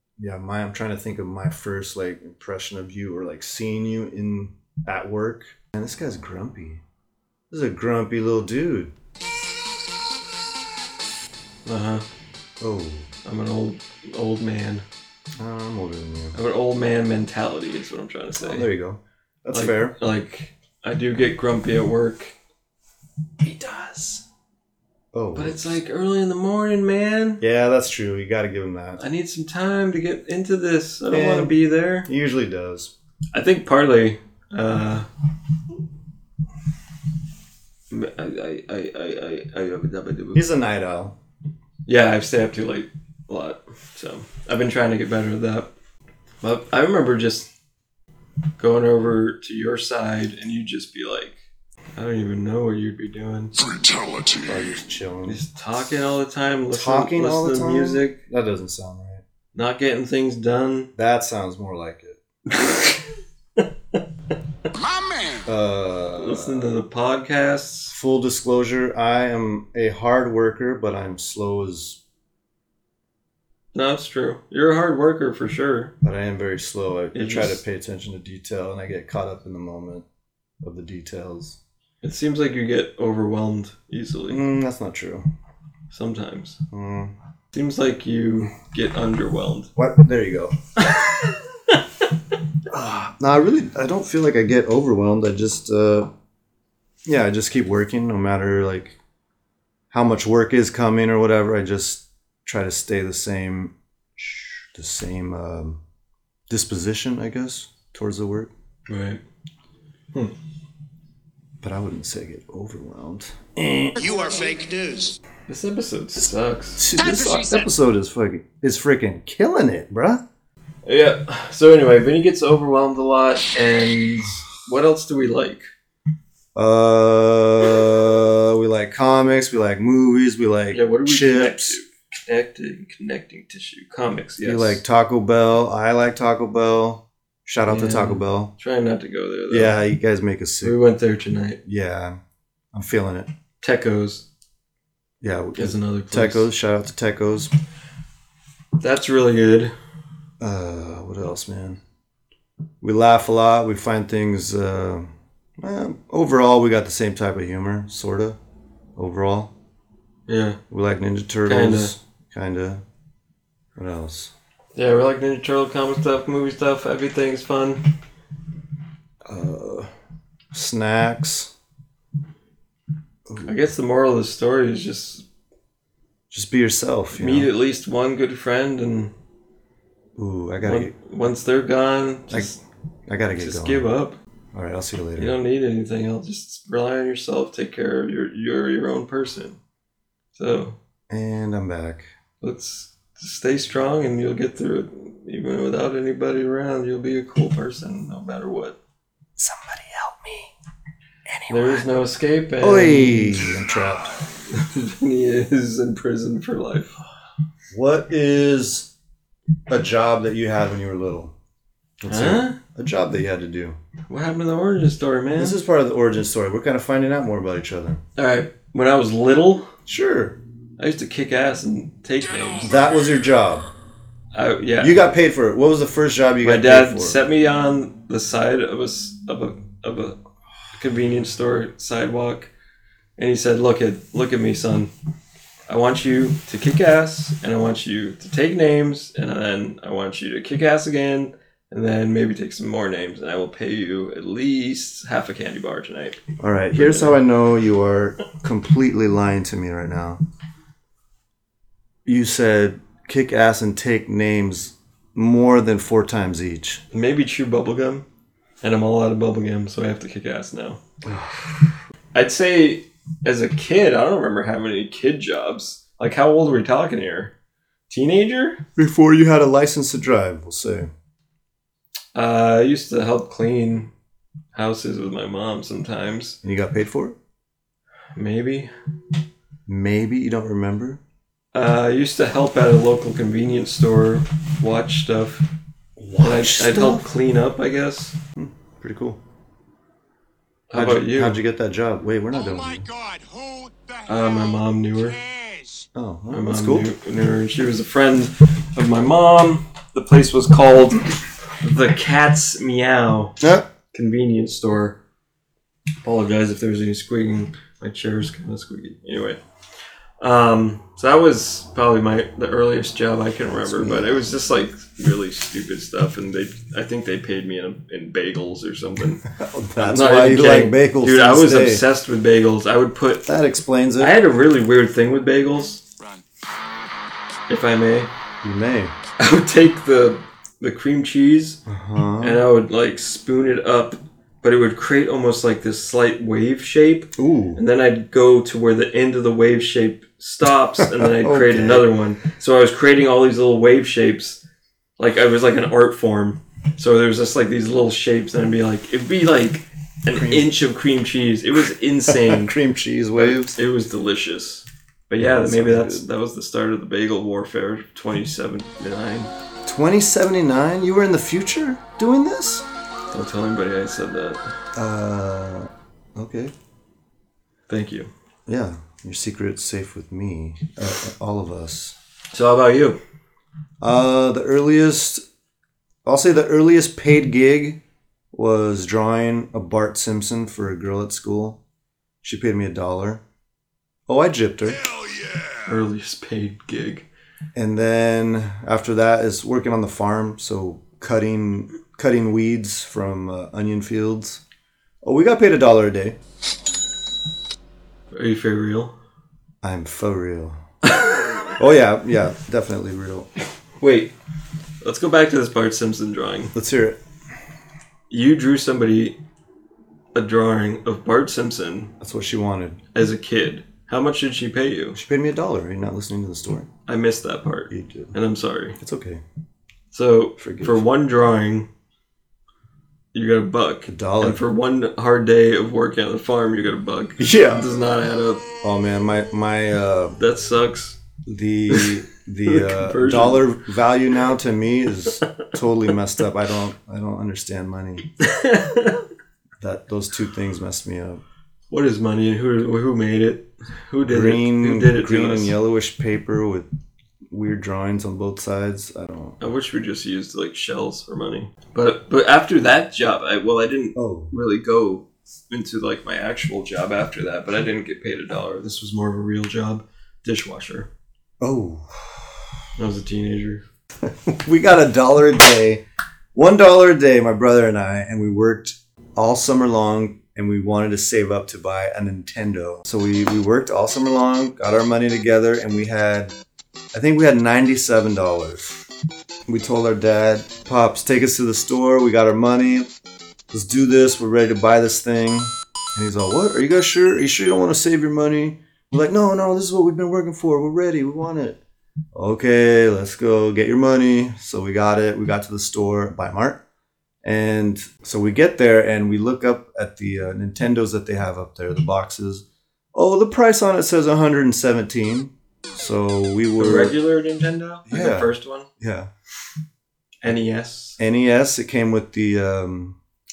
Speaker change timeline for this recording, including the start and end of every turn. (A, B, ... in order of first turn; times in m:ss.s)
0:00.2-0:06.8 A
0:07.5-0:08.9 A
0:11.6-0:12.0 B
0:12.6-0:13.1 A
0:13.2-0:14.8 B
0:15.4-0:16.3 A
0:16.3-0:18.7 B
0:18.4-0:19.9 A
0:19.5-0:22.3 B
0:23.5-0:24.2 A
0:23.5-0:24.1 B
0:25.1-0:25.8 A
0:25.3-0:27.4 B
0:27.4-0:29.0 A
0:29.0-0:32.1 B
0:31.1-0:32.9 A
0:33.3-0:35.0 B
0:37.9-0:40.4 B
0:40.3-0:41.1 A
0:41.8-0:45.7 B
0:46.4-0:47.5 B
0:48.6-0:51.3 B
0:52.0-0:53.5 B
0:53.6-0:54.6 C
0:54.4-0:55.4 A
0:55.2-0:58.2 B
0:56.7-0:59.2 A
0:59.5-1:00.9 B
1:01.0-1:02.2 A
1:02.5-1:03.0 B
1:03.6-1:04.0 B
1:04.7-1:05.5 C
1:05.4-1:06.8 A
1:06.2-1:08.0 B
1:07.9-1:12.0 A
1:13.7-1:15.9 B
1:16.0-1:20.0 A
1:17.1-1:17.6 B
1:20.6-1:21.6 A
1:22.0-1:24.4 B
1:24.3-1:25.2 A
1:25.9-1:26.6 B
1:26.7-1:27.1 A
1:27.5-1:29.7 B
1:29.8-1:30.5 A
1:30.8-1:31.8 B
1:32.7-1:36.1 A
1:37.0-1:39.0 A
1:39.9-1:43.7 A
1:44.7-1:45.8 A
1:46.5-1:48.5 A
1:48.9-1:49.2 B
1:51.6-1:54.0 A
1:54.0-1:55.2 C
1:55.5-1:56.9 B
1:56.8-2:00.2 A
1:56.9-1:57.7 C
2:00.8-2:05.6 B
2:06.5-2:11.8 A
2:10.7-2:14.8 B
2:14.4-2:18.5 A
2:17.7-2:19.8 B
2:19.5-2:20.8 A
2:20.6-2:21.6 B
2:21.6-2:22.2 A
2:22.7-2:23.3 A
2:23.6-2:24.2 B
2:25.2-2:27.5 A
2:25.6-2:26.5 B
2:28.8-2:29.7 B
2:30.4-2:31.8 A
2:32.8-2:38.4 A
2:39.0-2:39.5 A
2:40.3-2:40.6 B
2:40.7-2:42.8 A
2:41.4-2:41.9 B
2:43.8-2:44.3 A
2:44.7-2:47.8 B
2:49.2-2:49.9 A
2:50.5-2:51.5 A
2:53.3-2:53.5 A
2:53.4-2:55.2 B
2:56.3-2:57.5 A
2:57.1-2:59.1 B
3:00.2-3:00.9 A
3:00.6-3:02.6 B
3:03.1-3:03.8 A
3:03.4-3:04.2 B
3:04.5-3:05.3 A
3:05.2-3:09.6 B
3:10.3-3:10.8 B
3:11.1-3:12.1 A
3:12.4-3:18.8 B
3:19.4-3:20.5 A
3:21.3-3:22.0 A
3:21.5-3:23.5 B
3:22.6-3:24.2 A
3:24.5-3:26.9 B
3:27.7-3:28.9 A
3:29.7-3:31.3 A
3:32.0-3:33.8 A
3:32.1-3:32.6 B
3:34.1-3:35.6 B
3:35.3-3:38.0 A
3:38.2-3:39.7 B
3:39.9-3:40.4 A
3:40.8-3:42.8 B
3:42.6-3:43.7 A
3:44.3-3:45.0 B
3:44.8-3:47.2 A
3:46.4-3:50.2 B
3:50.7-3:52.5 B
3:53.2-3:54.9 B
3:55.7-4:06.2 B
4:06.4-4:10.2 A
4:06.8-4:07.2 B
4:12.0-4:16.8 A
4:16.9-4:18.0 B
4:18.6-4:20.8 B
4:21.0-4:21.5 A
4:22.1-4:27.3 B
4:27.9-4:28.6 B
4:28.8-4:30.9 A
4:32.1-4:33.9 B
4:34.5-4:36.4 B
4:36.4-4:37.2 A
4:38.1-4:38.7 B
4:39.7-4:41.0 A
4:41.5-4:45.4 B
4:46.0-4:47.1 A
4:46.2-4:48.1 B
4:48.4-4:49.2 A
4:50.7-4:51.4 B
4:50.7-4:52.9 A
4:52.3-4:55.9 C
4:54.1-4:55.2 B
4:55.9-4:56.9 A
4:56.3-5:01.1 B
5:01.6-5:03.4 B
5:03.4-5:03.6 A
5:03.9-5:05.0 B
5:06.0-5:09.4 B
5:10.2-5:19.2 B
5:13.5-5:14.3 A
5:19.3-5:21.8 A
5:19.8-5:23.3 B
5:23.3-5:24.2 A
5:24.0-5:25.8 B
5:27.5-5:28.1 B
5:28.4-5:28.9 A
5:29.2-5:31.6 B
5:31.7-5:32.4 A
5:32.2-5:44.4 B
5:37.2-5:37.6 A
5:40.8-5:41.9 A
5:45.0-5:52.5 B
5:50.1-5:50.6 A
5:52.1-5:53.6 A
5:53.2-5:59.3 B
5:55.2-5:56.0 A
5:59.6-6:02.6 A
6:03.1-6:04.4 B
6:04.7-6:06.5 A
6:07.7-6:08.1 B
6:08.5-6:11.9 A
6:12.3-6:13.0 B
6:13.8-6:15.2 A
6:16.0-6:17.8 A
6:18.3-6:21.6 A
6:22.2-6:23.2 A
6:24.1-6:24.8 A
6:25.6-6:27.0 B
6:27.5-6:34.4 A
6:35.0-6:36.2 A
6:38.1-6:38.9 B
6:39.6-6:40.6 A
6:40.8-6:41.6 B
6:41.6-6:43.3 A
6:43.8-6:44.1 B
6:44.8-6:46.5 B
6:46.5-6:47.0 A
6:48.1-6:49.2 B
6:50.1-6:51.9 B
6:52.0-6:52.8 A
6:52.9-6:55.0 B
6:54.9-6:56.7 A
6:56.9-6:58.8 B
6:57.7-6:58.1 A
6:58.8-6:59.2 A
6:59.9-7:01.7 B
7:00.4-7:00.8 A
7:03.1-7:08.4 B
7:03.8-7:04.4 A
7:07.2-7:07.6 A
7:08.6-7:10.2 A
7:10.2-7:11.0 B
7:11.2-7:18.0 A
7:11.7-7:11.9 B
7:12.4-7:13.4 B
7:18.2-7:19.0 B
7:19.6-7:21.2 A
7:21.7-7:25.5 B
7:24.1-7:26.7 A
7:27.3-7:29.4 A
7:29.4-7:40.9 B
7:33.9-7:34.3 A
7:41.4-7:42.4 A
7:42.8-7:43.6 B
7:44.0-7:45.8 A
7:46.3-7:56.3 A
7:56.9-7:58.8 A
7:59.5-8:02.9 A
8:03.5-8:11.6 A
8:12.1-8:16.6 A
8:17.2-8:26.9 A
8:26.6-8:28.7 B
8:27.9-8:29.1 A
8:30.2-8:31.0 B
8:31.0-8:33.0 A